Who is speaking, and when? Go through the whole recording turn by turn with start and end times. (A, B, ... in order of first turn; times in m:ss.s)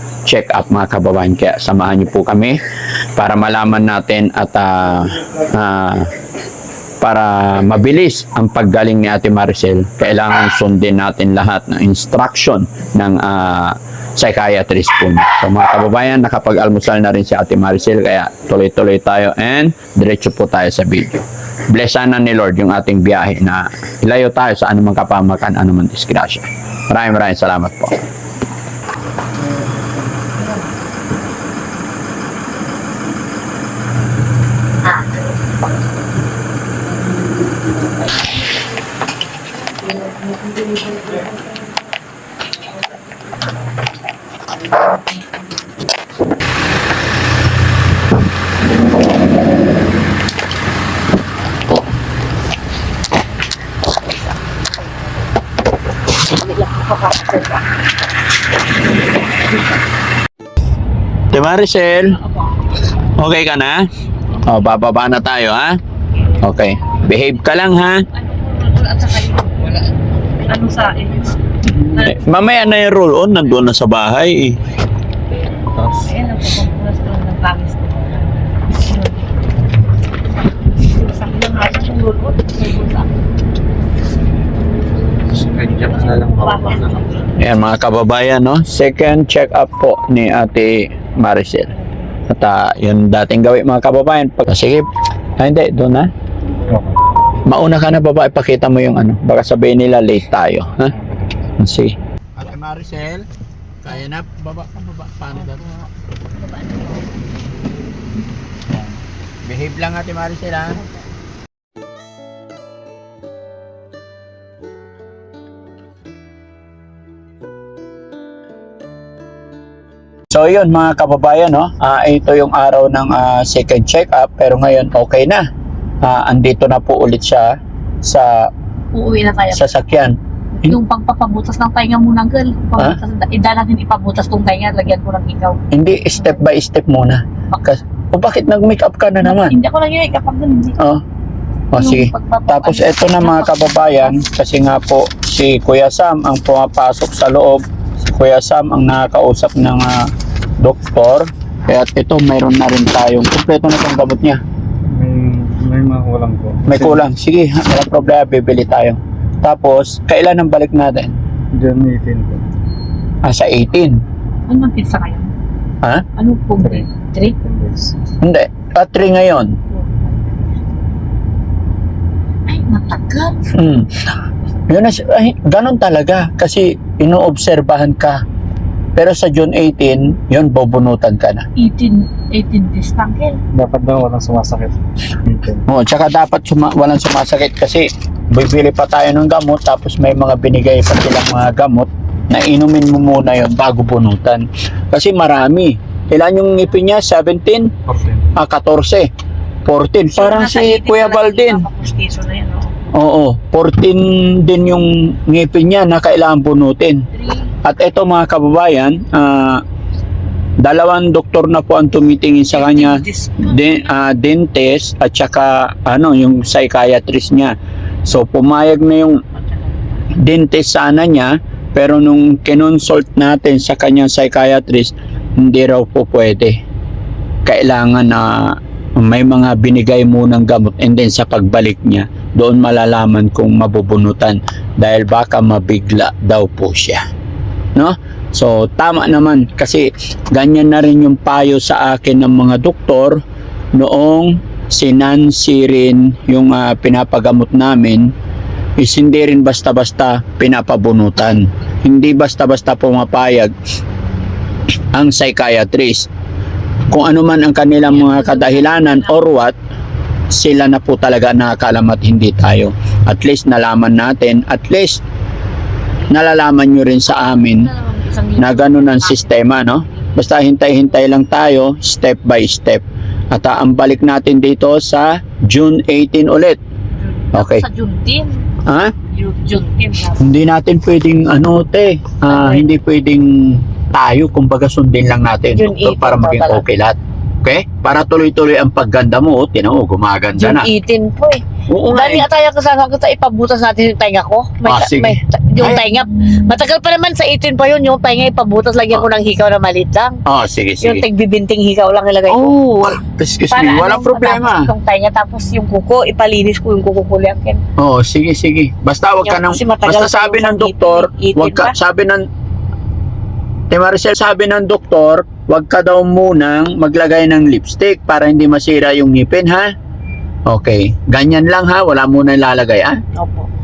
0:00.2-0:02.6 A
0:03.2-0:06.1 A
0:07.0-0:28.0 A
0:56.3-0:57.6 B
1:01.3-1:02.2 A
1:03.2-1:03.9 A
1:04.4-1:05.8 A
1:06.4-1:08.0 A
1:08.1-1:09.9 B
1:10.4-1:11.4 B
1:11.7-1:14.6 A
1:11.9-1:12.6 B
1:15.8-1:19.3 B
1:20.6-1:23.1 B
1:25.4-1:27.3 B
1:27.4-1:31.7 A
1:32.3-1:34.9 A
1:35.4-1:36.1 A
1:37.5-1:40.9 A
1:41.6-1:43.3 A
1:43.8-1:45.8 A
1:45.4-1:45.8 B
1:46.4-1:47.1 B
1:49.4-1:50.8 A
2:00.3-2:05.4 A
2:06.0-2:08.5 A
2:08.9-2:09.6 B
2:09.5-2:10.8 A
2:10.6-2:15.6 B
2:15.7-2:19.6 A
2:19.2-2:20.8 B
2:21.7-2:34.4 A
2:21.8-2:24.2 B
2:34.9-2:37.0 C
2:36.7-2:41.1 A
2:41.5-2:42.4 C
2:43.2-2:44.0 A
2:44.5-2:45.3 B
2:46.2-2:47.3 B
2:46.6-2:46.9 C
2:47.4-2:48.0 C
2:48.2-2:49.6 A
2:52.5-2:53.5 B
2:53.5-2:53.9 A
2:54.7-2:58.2 A
2:59.0-3:01.4 A
3:01.6-3:03.4 B
3:03.5-3:05.6 C
3:05.7-3:17.7 A
3:17.9-3:18.4 C
3:18.4-3:19.1 A
3:19.6-3:21.7 A
3:20.2-3:22.8 B
3:22.9-3:27.0 A
3:27.2-3:27.5 B
3:27.6-3:29.6 A
3:30.6-3:37.5 A
3:32.5-3:33.9 B
3:38.0-3:39.2 A
3:40.2-3:46.6 A
3:47.4-3:57.0 A
3:57.7-4:03.2 A
4:03.7-4:08.1 A
4:08.8-4:13.5 A
4:14.9-4:16.1 A
4:16.9-4:19.6 A
4:17.8-4:19.2 B
4:20.3-4:25.0 A
4:26.1-4:27.7 A
4:27.1-4:29.4 B
4:28.4-4:36.6 A
4:37.0-4:38.4 B
4:37.3-4:37.6 A
4:38.6-4:38.9 A
4:39.1-4:40.2 B
4:40.2-4:50.7 A
4:42.3-4:42.7 B
4:45.5-4:46.6 B
4:50.3-5:00.2 B
4:51.7-4:52.2 A
4:54.6-4:55.8 A
5:00.2-5:01.0 A
5:00.8-5:02.4 B
5:02.3-5:04.7 A
5:03.5-5:07.6 B
5:07.8-5:12.2 A
5:09.2-5:11.7 B
5:13.7-5:19.7 A
5:20.5-5:23.0 A
5:23.1-5:23.5 B